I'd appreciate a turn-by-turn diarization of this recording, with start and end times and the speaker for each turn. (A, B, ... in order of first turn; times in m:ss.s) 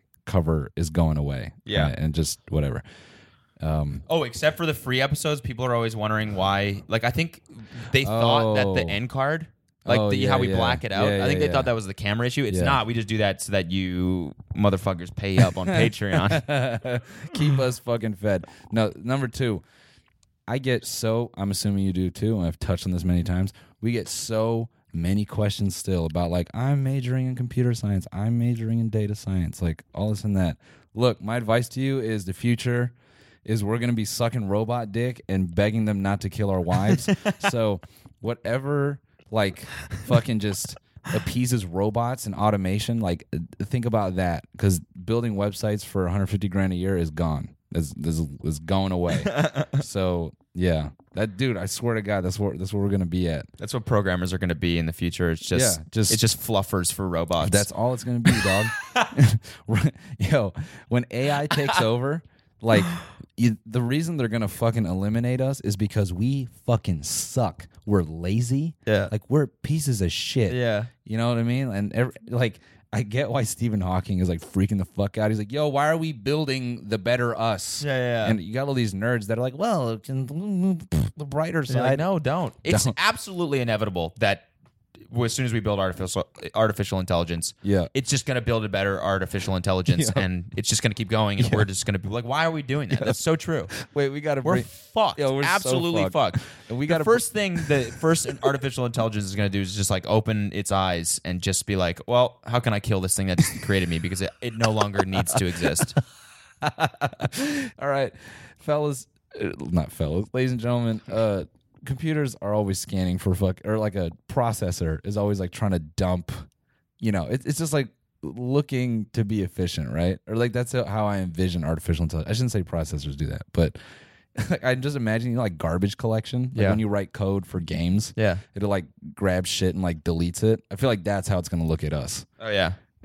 0:00.3-0:02.8 A
0:01.6-0:01.9 B
0:03.6-0:04.0 A
0:04.1-0:16.4 B
0:08.0-0:09.0 A
0:09.9-0:11.7 A
0:12.5-0:12.8 A
0:15.4-0:19.6 A
0:20.5-0:53.5 A
0:37.0-0:37.5 B
0:49.1-0:49.8 B
0:53.6-0:57.7 B
0:55.5-0:56.2 A
0:57.4-1:22.1 A
0:58.3-0:59.1 B
1:01.5-1:01.8 B
1:08.9-1:09.1 B
1:10.5-1:10.9 B
1:17.8-1:18.4 B
1:21.7-1:24.5 B
1:22.6-1:22.9 A
1:25.1-1:33.7 B
1:27.6-1:27.9 A
1:29.9-1:30.2 A
1:31.4-1:31.7 A
1:32.9-1:33.2 A
1:33.8-1:37.8 A
1:34.4-1:46.0 B
1:45.3-1:46.0 A
1:46.6-1:56.4 A
1:57.0-2:03.8 A
2:04.4-2:12.3 A
2:06.6-2:06.8 B
2:08.2-2:08.4 B
2:12.4-2:12.8 B